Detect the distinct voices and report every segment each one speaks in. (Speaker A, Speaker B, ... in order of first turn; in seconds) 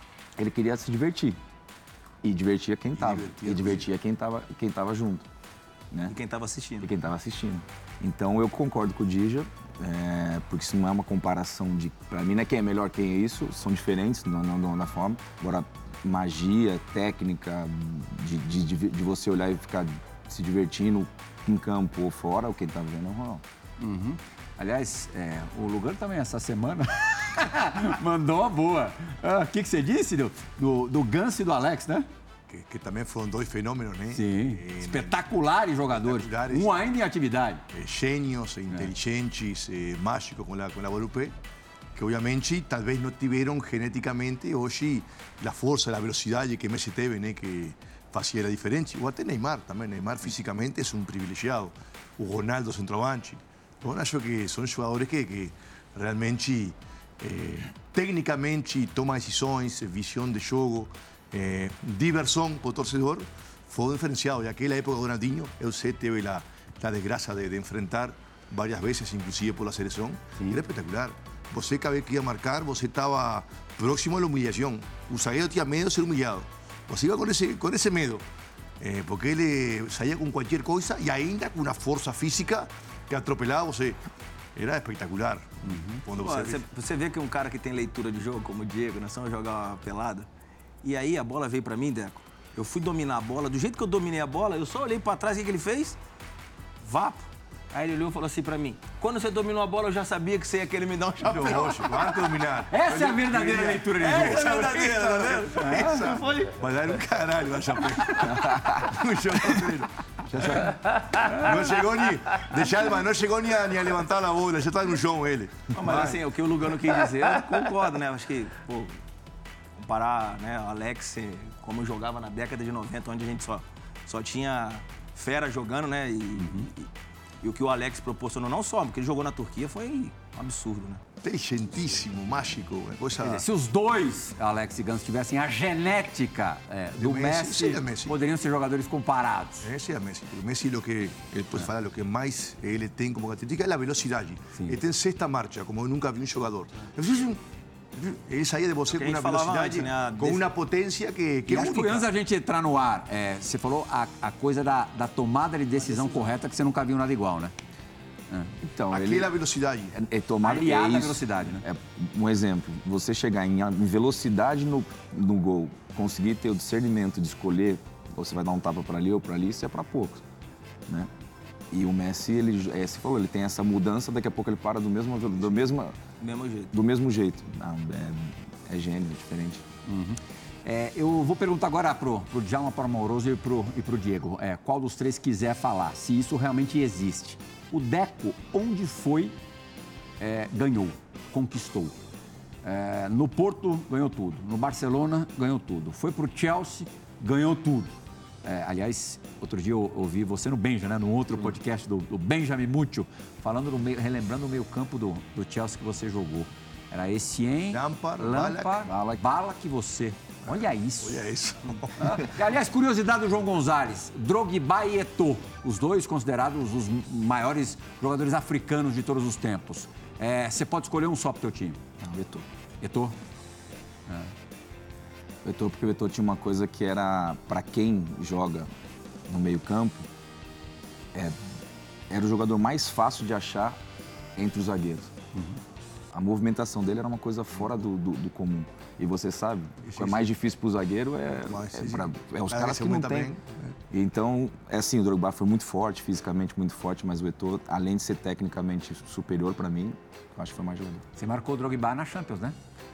Speaker A: 0.4-1.4, 2.2-5.2, 6.8-23.4, 108.3-108.8, 158.6-159.3, 159.9-170.2, 171.7-175.9, 176.7-179.6, 208.8-209.2, 222.0-222.4, 225.4-228.7, 229.3-230.1, 232.1-233.8, 234.3-235.1, 236.1-243.3, 243.9-251.0
Speaker B: 3.0-3.9, 32.5-35.2, 35.9-36.7, 37.7-41.3, 41.9-78.2, 78.8-84.0, 84.5-86.6, 101.2-116.2, 131.2-133.4, 137.0-138.2, 139.6-147.4, 147.9-152.1, 158.9-159.9, 207.7-208.8, 210.4-212.3, 239.8-240.2, 241.5-243.7
Speaker C: 6.1-6.9, 86.1-90.3, 90.8-96.0, 96.8-102.2, 104.0-106.5, 115.7-119.0, 119.8-126.9, 127.4-131.0, 148.9-150.4, 176.2-176.7
Speaker D: 23.8-32.1, 34.1-37.6, 85.6-86.0, 102.7-104.5, 105.6-105.9, 111.3-111.5, 126.4-126.7, 133.2-139.7, 151.5-157.5, 160.4-161.6, 179.8-189.4, 190.2-191.9, 192.6-197.9, 198.4-211.3, 211.9-221.8, 222.8-223.2, 224.1-224.3, 251.2-252.6